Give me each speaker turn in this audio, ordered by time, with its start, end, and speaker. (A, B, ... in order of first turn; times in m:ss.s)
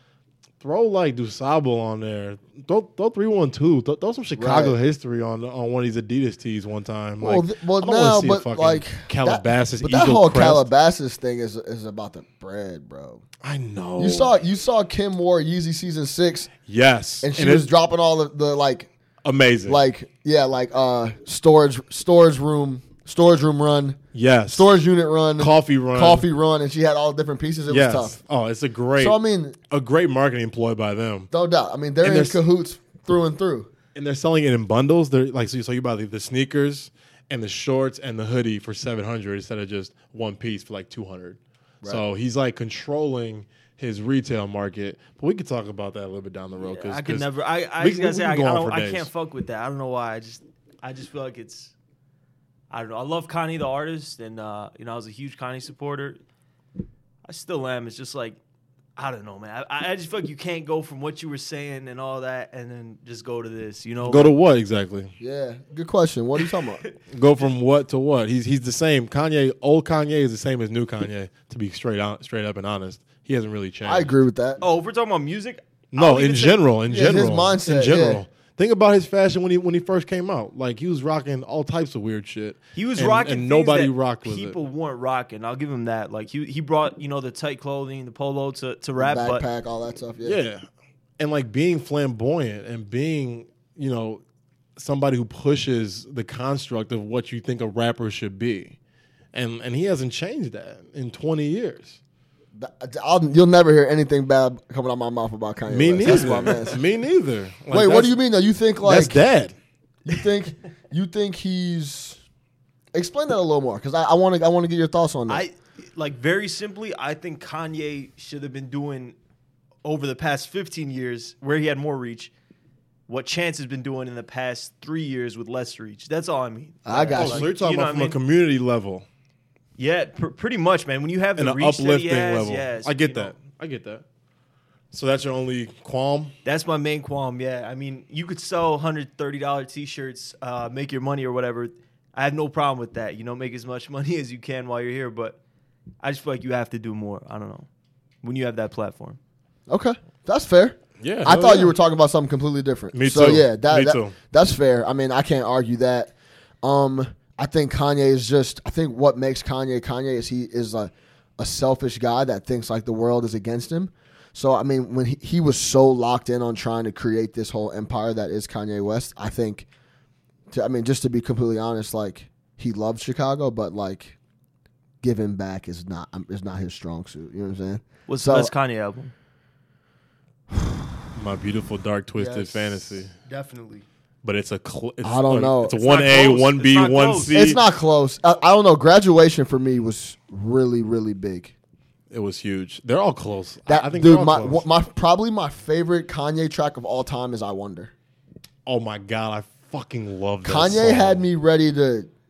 0:00.6-0:10.7 A
0:04.4-0:04.8 B
0:07.2-0:13.2 B
0:13.4-0:14.3 A
0:14.0-0:16.5 B
0:16.7-0:17.7 A
0:17.2-0:18.9 B
0:19.2-0:19.8 A
0:19.7-0:24.0 B
0:24.1-0:24.7 A
0:24.5-0:28.2 B
0:25.4-0:26.2 A
0:27.7-0:29.2 A
0:29.0-0:29.6 B
0:29.7-0:31.3 A
0:31.3-0:33.7 B
0:32.0-0:32.4 A
0:34.0-0:49.1 A
0:46.6-0:51.7 C
0:52.7-0:56.2 C
0:57.2-0:58.4 C
0:59.0-1:04.3 C
1:04.0-1:05.1 A
1:05.2-1:06.8 B
1:06.4-1:07.4 C
1:07.1-1:14.1 A
1:13.8-1:14.6 B
1:14.6-1:16.6 C
1:15.9-1:24.6 A
1:16.9-1:18.2 B
1:22.8-1:29.4 C
1:29.0-1:30.4 B
1:30.2-1:30.6 A
1:31.2-1:34.2 A
1:34.8-1:38.8 A
1:39.3-1:42.0 A
1:42.6-1:46.8 B
1:45.7-1:48.1 A
1:46.0-1:46.7 C
1:47.7-1:49.2 B
1:48.8-1:49.6 A
1:50.0-1:52.2 B
1:52.9-1:55.5 B
1:55.3-1:59.2 C
1:59.8-2:02.3 C
2:03.1-2:08.2 C
2:06.9-2:07.5 B
2:07.2-2:09.1 A
2:09.8-2:13.4 C
2:11.4-2:14.0 A
2:14.9-2:16.4 A
2:16.4-2:25.4 C
2:26.0-2:27.7 C
2:28.2-2:29.2 C
2:29.7-2:49.7 B
2:31.0-2:31.7 A
2:32.9-2:34.2 A
2:50.5-2:54.2 B
2:55.0-2:58.5 B
2:58.1-2:59.1 C
3:01.1-3:03.1 A
3:02.2-3:02.9 B
3:03.2-3:03.8 C
3:04.2-3:07.6 A
3:05.0-3:05.8 B
3:05.7-3:07.4 C
3:07.3-3:11.5 B
3:12.1-3:14.6 A
3:13.7-3:17.9 B
3:18.7-3:21.2 A
3:20.4-3:22.1 B